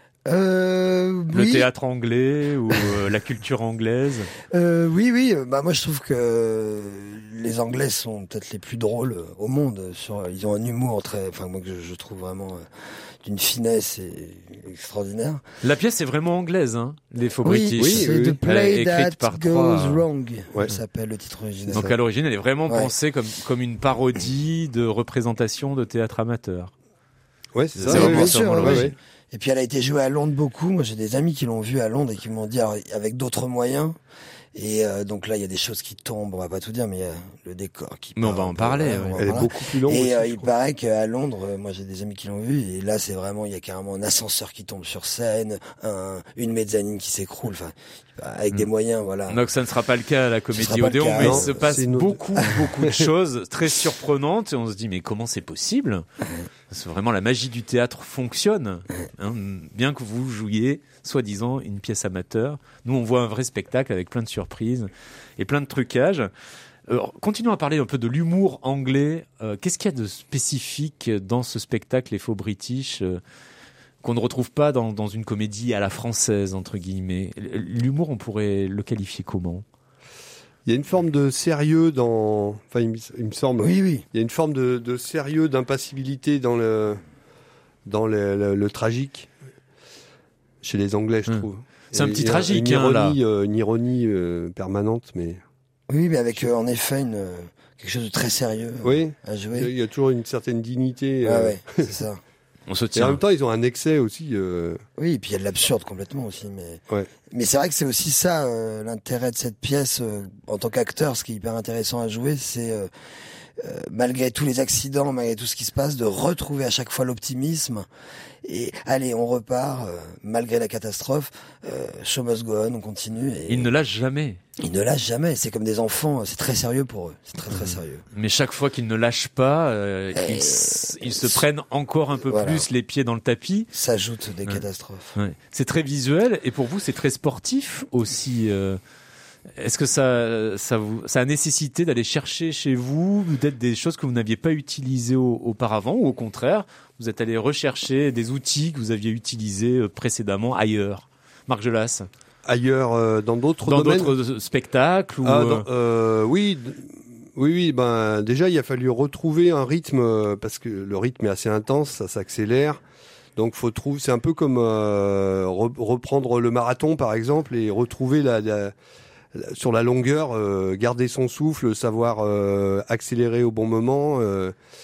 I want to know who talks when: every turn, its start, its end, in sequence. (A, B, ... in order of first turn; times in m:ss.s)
0:00.2-0:01.7 A
0:01.3-0:04.3 B
0:04.5-0:12.6 A
0:13.2-0:15.4 A
0:15.6-0:20.1 B
0:17.4-0:22.0 A
0:17.8-0:18.4 C
0:21.7-0:26.7 B
0:27.5-0:28.9 C
0:27.8-0:28.9 B
0:27.9-0:34.0 A
0:34.6-0:49.4 A
0:38.2-0:39.3 B
0:39.2-0:40.5 C
0:49.3-0:56.0 B
0:50.5-0:51.8 A
0:51.1-0:53.1 C
0:52.4-0:52.6 A
0:56.7-1:06.3 B
1:06.9-1:13.2 B
1:14.0-1:19.6 B
1:20.7-1:27.0 C
1:23.6-1:24.1 A
1:27.9-1:29.3 C
1:30.6-1:35.4 C
1:31.3-1:33.2 B
1:35.9-1:39.7 A
1:38.8-1:41.9 C
1:41.2-1:42.2 A
1:42.7-1:43.2 B
1:43.0-1:44.8 C
1:45.0-1:52.9 A
1:53.6-1:57.9 A
1:58.4-2:03.7 A
2:03.5-2:04.4 B
2:04.6-2:08.0 A
2:07.5-2:13.7 B
2:10.2-2:11.4 A
2:12.3-2:12.7 A
2:13.7-2:15.2 A
2:15.2-2:18.8 B
2:19.6-2:32.1 B
2:32.5-2:34.2 C
2:33.7-2:35.7 B
2:35.2-2:42.8 C
2:43.4-2:48.7 C
2:49.3-2:54.6 C